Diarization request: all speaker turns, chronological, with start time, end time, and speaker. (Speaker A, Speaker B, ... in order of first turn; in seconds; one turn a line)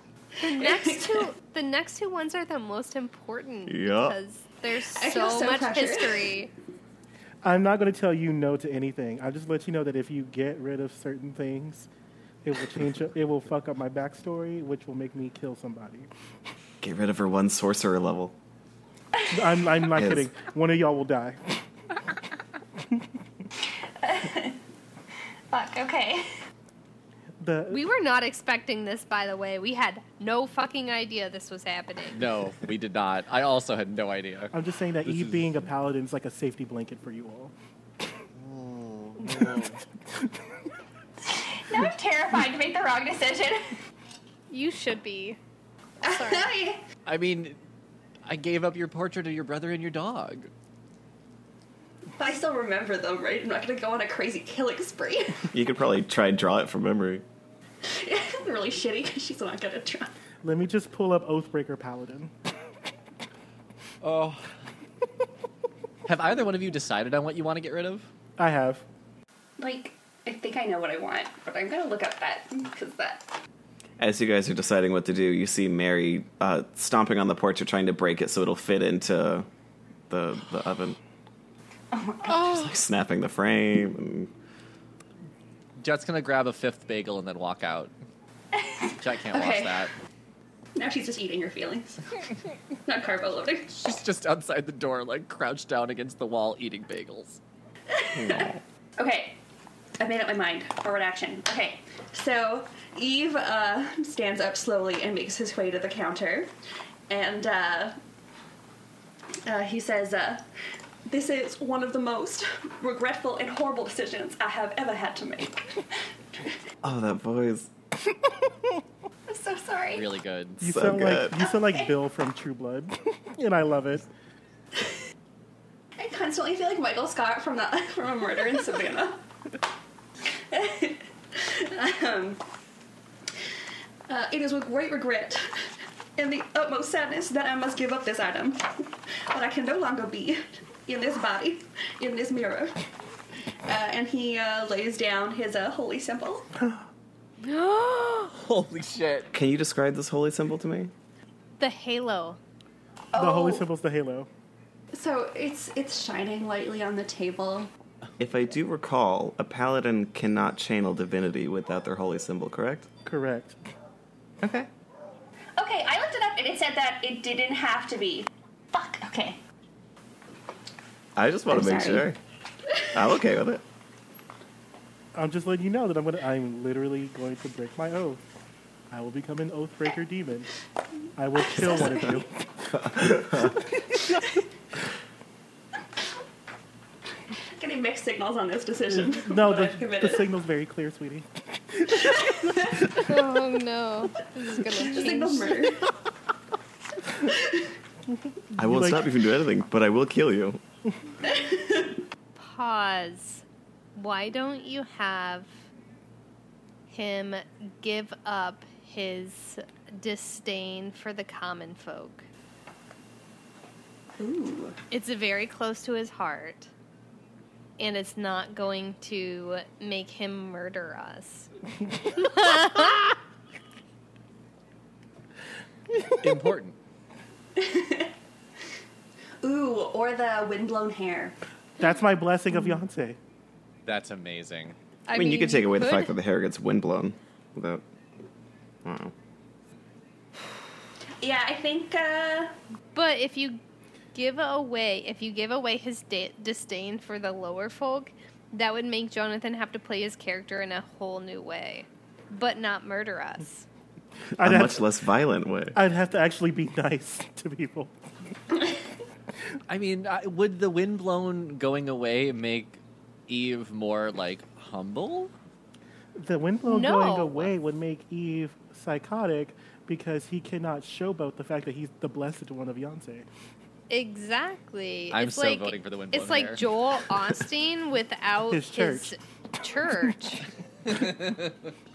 Speaker A: 0.4-6.5
Speaker B: 0.6-1.3
Speaker C: 3.7-4.2
Speaker B: 4.9-6.3
Speaker D: 7.4-11.9
Speaker D: 12.4-16.1
Speaker C: 16.8-18.4
Speaker D: 19.3-21.6
Speaker C: 19.9-20.3
Speaker B: 23.6-24.6
Speaker B: 25.5-26.4
Speaker D: 27.4-27.8
Speaker A: 27.7-32.2
Speaker E: 32.1-34.5
Speaker D: 34.5-37.5
Speaker E: 35.1-35.6
Speaker E: 38.4-39.8
Speaker D: 39.4-39.6
Speaker B: 41.2-43.7
Speaker A: 44.5-45.4
Speaker B: 46.0-46.8
Speaker A: 46.1-46.5
Speaker E: 47.1-47.6
Speaker E: 48.3-50.5
Speaker B: 52.2-55.5
Speaker C: 55.5-57.2
Speaker B: 57.8-60.1
Speaker D: 60.4-62.3
Speaker E: 64.0-64.5
Speaker E: 66.1-68.1
Speaker D: 68.4-68.8
Speaker B: 69.6-73.3
Speaker C: 74.0-79.5
Speaker C: 80.1-81.0
Speaker B: 81.9-82.5
Speaker C: 82.4-84.3
Speaker E: 85.8-87.9
Speaker B: 88.5-89.9
Speaker E: 89.0-89.9
Speaker B: 90.8-92.0
Speaker B: 92.9-93.7
Speaker E: 93.7-97.4
Speaker B: 97.9-99.4
Speaker C: 98.2-98.6
Speaker B: 100.0-106.5
Speaker B: 107.1-108.0
Speaker B: 109.5-110.5
Speaker B: 111.1-115.9
Speaker C: 116.8-117.7
Speaker B: 119.3-120.1
Speaker E: 119.9-120.6
Speaker D: 120.6-124.1
Speaker C: 120.6-121.3
Speaker B: 121.4-121.9
Speaker B: 126.0-129.2
Speaker B: 130.3-132.4
Speaker B: 134.1-142.8
Speaker B: 143.7-146.5
Speaker A: 147.4-148.3
Speaker E: 148.3-149.3
Speaker C: 149.3-150.9
Speaker A: 151.6-152.4
Speaker B: 153.1-153.7
Speaker D: 153.2-154.3
Speaker B: 154.9-157.7
Speaker C: 158.2-162.9
Speaker D: 163.1-163.6
Speaker C: 164.4-164.7
Speaker B: 165.6-169.4
Speaker C: 171.2-172.2
Speaker B: 171.5-172.1
Speaker C: 172.9-173.6
Speaker D: 175.2-178.2
Speaker D: 178.9-180.5
Speaker D: 181.2-182.3
Speaker B: 181.4-182.3
Speaker C: 182.7-183.6
Speaker D: 182.9-184.2
Speaker B: 187.6-190.3
Speaker D: 188.9-192.8
Speaker B: 191.9-192.9
Speaker A: 192.9-195.8
Speaker B: 194.7-195.9
Speaker B: 197.2-197.7
Speaker D: 198.5-199.1
Speaker C: 198.6-200.6
Speaker B: 201.2-202.0
Speaker A: 202.4-203.4
Speaker A: 203.9-205.5
Speaker A: 206.9-212.3
Speaker B: 214.2-214.8
Speaker A: 214.9-216.7
Speaker A: 217.8-221.5
Speaker A: 222.1-223.2
Speaker D: 226.0-226.2
Speaker E: 226.1-226.8
Speaker B: 227.6-228.1
Speaker B: 229.4-231.4
Speaker D: 231.8-233.2
Speaker E: 233.9-234.8
Speaker A: 235.1-236.1
Speaker C: 235.1-237.8
Speaker C: 238.8-239.1
Speaker B: 241.2-242.5
Speaker A: 242.9-243.6
Speaker A: 244.1-253.7
Speaker D: 254.4-254.9
Speaker C: 254.4-255.8
Speaker D: 255.7-257.9
Speaker E: 259.7-265.3
Speaker D: 266.2-273.3
Speaker A: 266.7-267.4
Speaker A: 273.9-280.5
Speaker E: 275.1-276.7
Speaker D: 278.5-279.1
Speaker E: 280.9-281.5